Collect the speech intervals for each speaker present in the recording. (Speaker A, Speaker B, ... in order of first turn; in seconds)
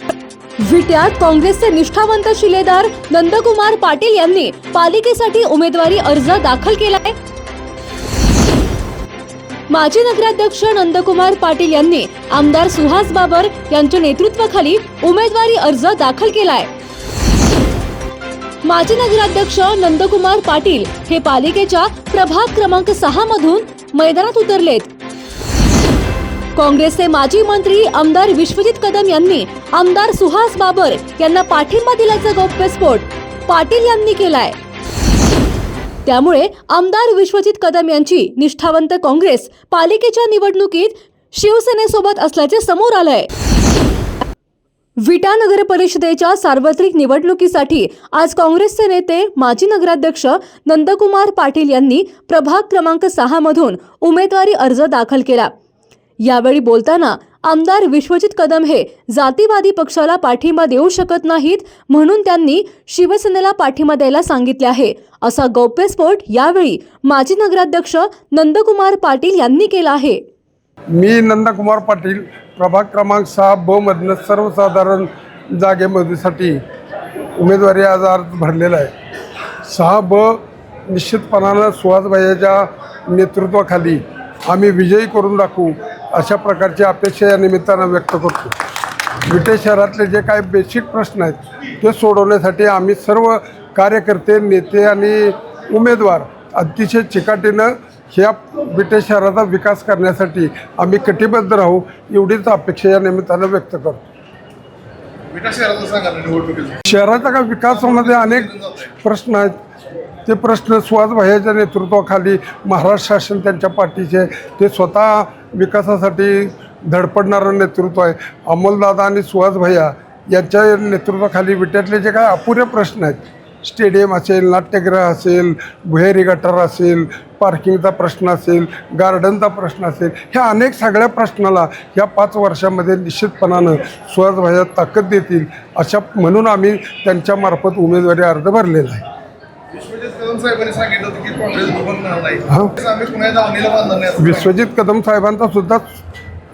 Speaker A: 0.6-7.2, 9.7-16.7, 18.6-24.9, 26.6-34.6, 36.0-43.3, 45.0-55.5, 56.2-70.2
Speaker B: 70.9-76.6, 77.4-78.9, 79.7-88.6, 89.3-104.0, 106.9-109.5, 110.3-139.0, 142.5-142.8, 144.2-145.9
Speaker C: 105.3-106.8, 107.9-108.9, 139.7-144.3